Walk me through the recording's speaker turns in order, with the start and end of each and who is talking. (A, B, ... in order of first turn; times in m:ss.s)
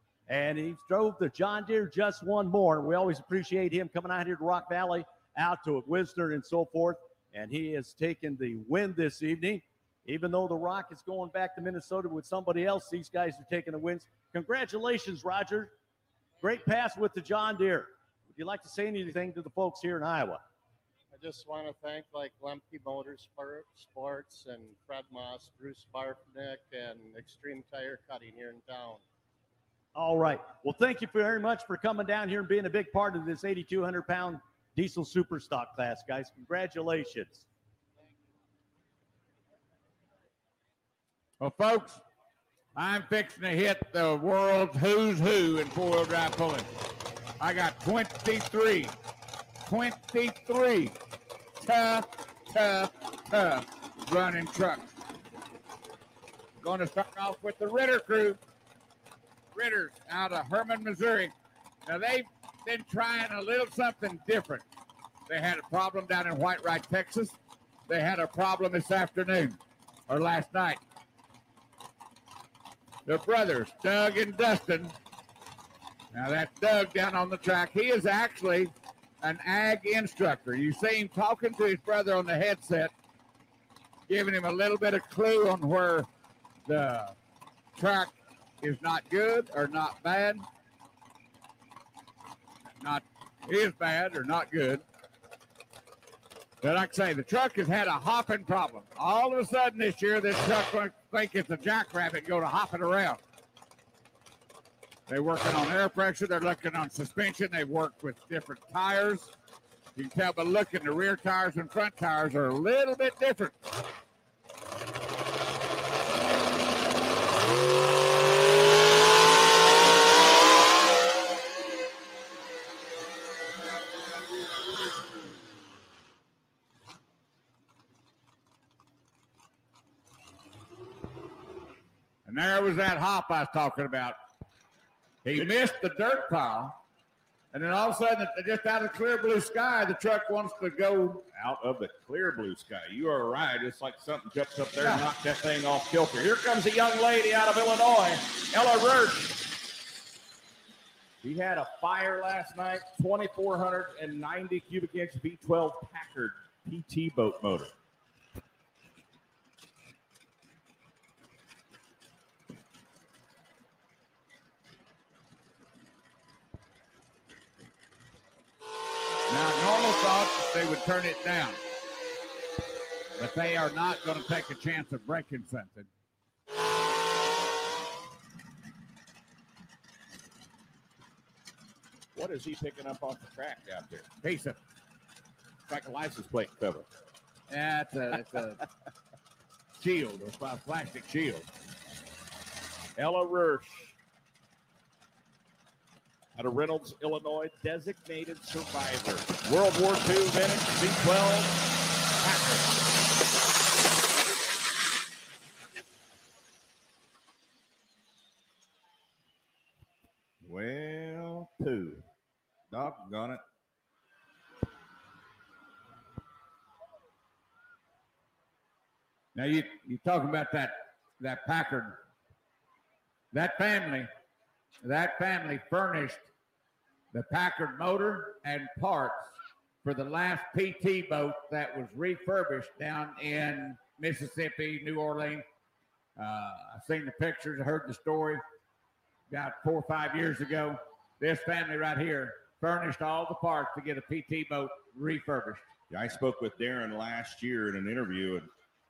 0:00.3-0:15.7 A
0:16.4-0:20.4 A
0:21.1-0:29.0 B
0:29.9-0:37.5 A
0:41.4-0:42.0 C
0:42.8-0:46.7 C
0:47.4-0:48.9 C
0:49.6-0:51.0 C
0:51.6-0:54.9 C
0:56.6-0:58.4 C
0:59.5-1:01.3 C
1:01.8-1:04.6 C
1:05.3-1:07.4 C
1:07.9-1:09.6 C
1:10.1-1:10.8 C
1:13.0-1:14.9 C
1:16.1-1:22.9 C
1:24.1-1:26.1 C
1:26.6-1:27.2 C
1:27.8-1:30.4 C
1:32.8-1:34.8 C
1:36.6-1:43.2 C
1:45.1-1:49.3 C
1:50.0-1:53.5 C
2:12.2-2:14.2 C
2:15.2-2:16.8 C
2:17.5-2:21.2 C
2:21.3-2:29.4 D
2:31.2-2:37.7 D
2:49.3-2:51.6 C
2:53.2-2:55.9 C
3:02.1-3:04.1 D
3:04.2-3:04.6 C
3:05.7-3:06.8 D
3:07.5-3:08.6 C
3:09.8-3:11.5 C
3:13.0-3:14.0 D
3:16.3-3:21.6 D
3:22.1-3:22.8 D
3:30.4-3:32.0 D
3:32.7-3:33.4 D
3:39.3-3:42.0 C
3:43.3-3:44.1 C
3:44.8-3:46.3 C
3:47.1-3:55.4 C
3:56.2-3:58.4 C
3:59.3-4:05.6 C
4:05.9-4:08.5 D